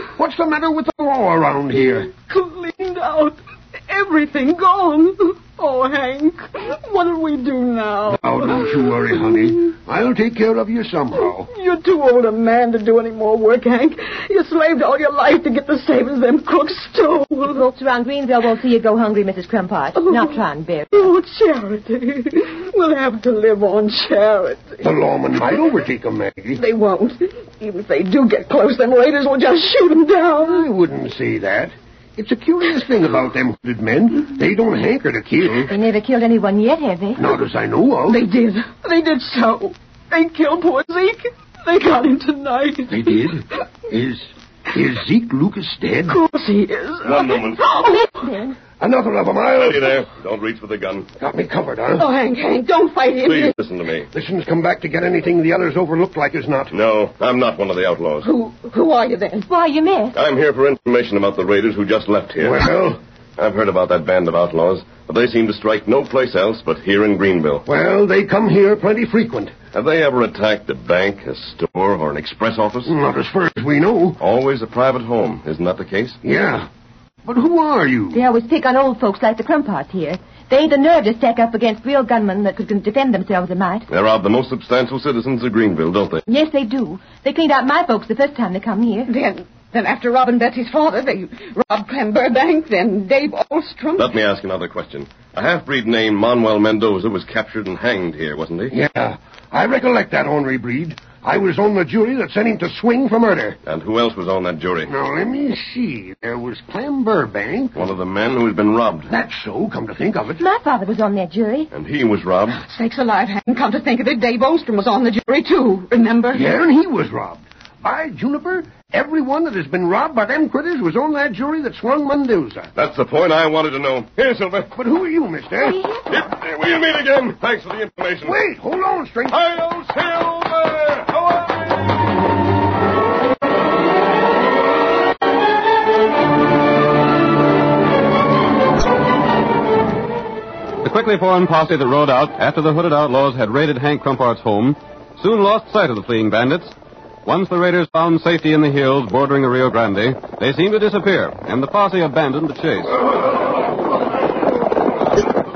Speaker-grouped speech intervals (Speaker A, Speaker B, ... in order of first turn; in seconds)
Speaker A: 0.2-2.1, 8.1-11.5, 24.8-26.6, 30.4-35.7, 37.2-38.2, 42.9-46.2, 48.8-50.0, 51.2-52.1, 54.1-56.7, 62.4-63.0, 67.7-69.5, 72.9-74.2, 76.2-76.7, 77.2-78.2, 98.7-103.5, 104.9-107.7, 109.1-110.4, 116.3-122.7, 124.7-125.7, 128.2-129.4
Speaker B: 2.2-9.5, 11.4-17.6, 19.9-24.8, 26.6-30.7, 38.1-43.4, 46.0-48.3, 52.0-53.6, 58.2-59.5, 89.1-94.1, 112.6-116.5
Speaker C: 17.4-21.1, 35.7-37.2, 47.7-48.6, 59.5-60.1, 78.1-83.9, 86.3-89.1, 110.4-111.7, 125.6-126.3
Speaker D: 47.0-47.6, 49.5-51.1, 53.2-54.1, 56.7-58.3, 60.1-62.7, 63.4-67.6, 69.7-72.9, 74.2-76.2, 83.9-86.2, 94.0-98.8, 103.6-104.9, 107.7-109.1, 111.7-112.6, 122.8-124.7, 126.1-128.4
Speaker E: 129.3-131.9
Speaker F: 140.8-146.7, 147.2-152.9